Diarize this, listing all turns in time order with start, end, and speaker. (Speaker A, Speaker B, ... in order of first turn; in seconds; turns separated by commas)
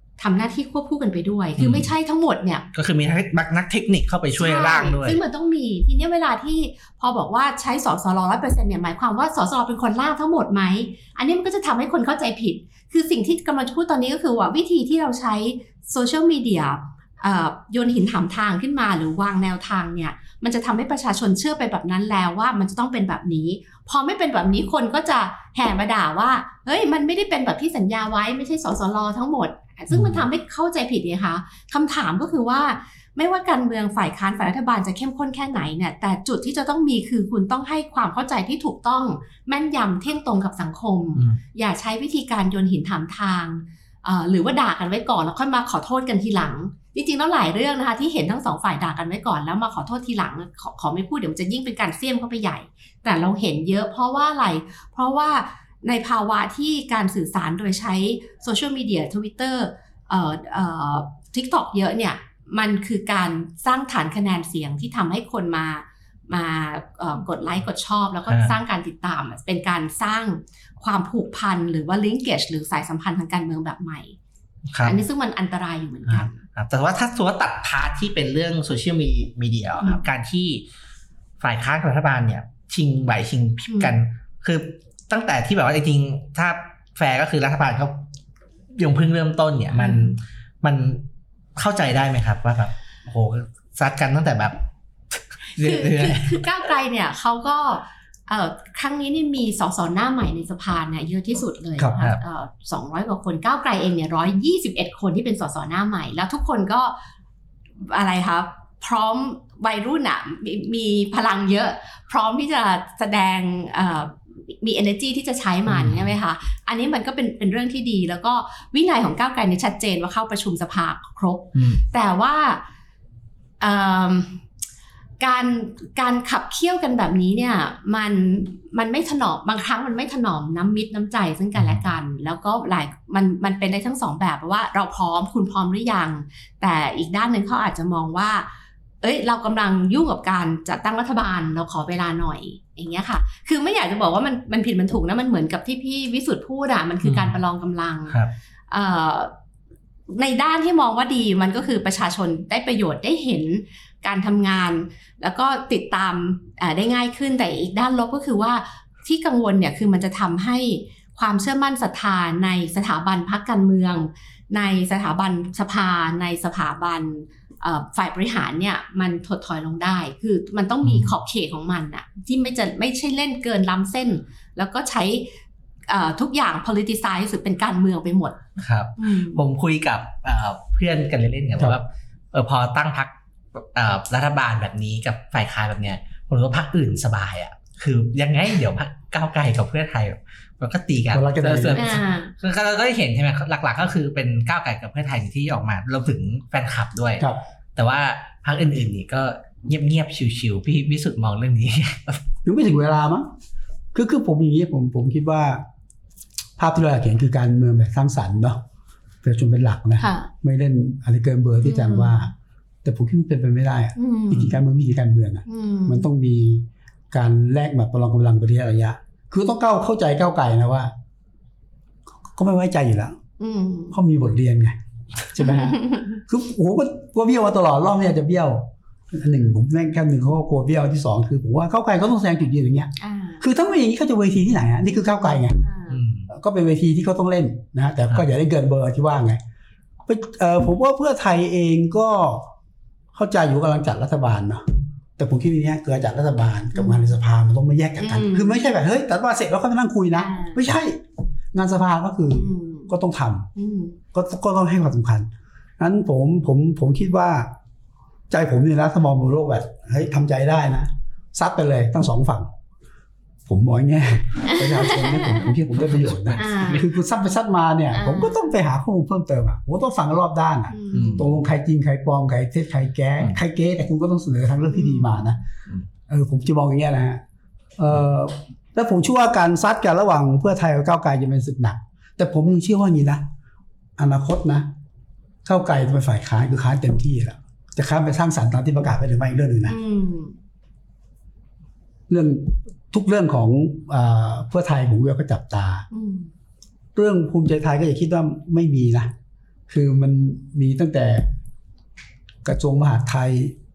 Speaker A: 0.2-2.6, Speaker B: 1.6-1.9, Speaker B: 2.7-5.2, Speaker A: 4.4-74.2, Speaker B: 29.9-30.2, Speaker B: 68.3-68.6, Speaker B: 74.7-75.0, Speaker A: 74.8-76.4, Speaker B: 76.1-80.6, Speaker B: 81.4-88.0, Speaker A: 83.7-83.9, Speaker B: 88.8-91.0, Speaker A: 89.7-90.2, Speaker B: 91.6-94.6, Speaker B: 95.1-96.4, Speaker A: 95.6-107.0, Speaker A: 107.8-122.6, Speaker B: 115.7-116.1, Speaker B: 121.5-121.8, Speaker A: 123.6-124.4, Speaker A: 125.2-138.5, Speaker B: 131.6-131.9, Speaker A: 139.0-148.2, Speaker B: 147.0-147.4, Speaker A: 148.7-149.3, Speaker A: 150.1-175.3, Speaker B: 170.8-171.2, Speaker A: 175.9-178.4, Speaker B: 178.6-202.2, Speaker A: 179.0-179.4, Speaker C: 191.1-192.0, Speaker A: 191.7-192.3, Speaker C: 202.4-203.3, Speaker C: 203.9-205.6, Speaker C: 206.6-208.6, Speaker C: 209.2-212.3, Speaker A: 210.0-210.3, Speaker A: 211.6-212.3, Speaker C: 212.8-220.9, Speaker A: 214.0-214.6, Speaker A: 215.5-216.1, Speaker C: 222.3-223.2, Speaker A: 223.4-224.0, Speaker C: 223.9-235.6, Speaker A: 225.4-226.2, Speaker A: 233.0-233.4, Speaker A: 234.9-236.0, Speaker B: 235.9-236.3, Speaker C: 236.3-239.4, Speaker C: 240.1-242.5, Speaker C: 243.1-244.7, Speaker C: 245.2-251.0, Speaker A: 246.8-247.0, Speaker A: 248.0-248.6, Speaker A: 250.1-250.6, Speaker C: 251.5-253.5, Speaker A: 252.3-252.9, Speaker A: 253.6-254.0, Speaker C: 254.1-257.5, Speaker C: 258.3-262.5, Speaker C: 263.5-275.4, Speaker A: 264.4-265.5, Speaker B: 265.9-266.8, Speaker A: 266.4-266.8, Speaker A: 267.9-268.5, Speaker A: 270.7-271.3, Speaker B: 270.9-271.3, Speaker A: 274.6-275.4, Speaker C: 276.1-277.2, Speaker C: 277.8-283.3, Speaker C: 284.0-284.7, Speaker C: 285.4-289.8, Speaker A: 289.7-290.4, Speaker C: 292.1-295.9, Speaker A: 295.9-296.3, Speaker C: 296.9-299.1, Speaker C: 299.7-301.3, Speaker C: 302.4-303.6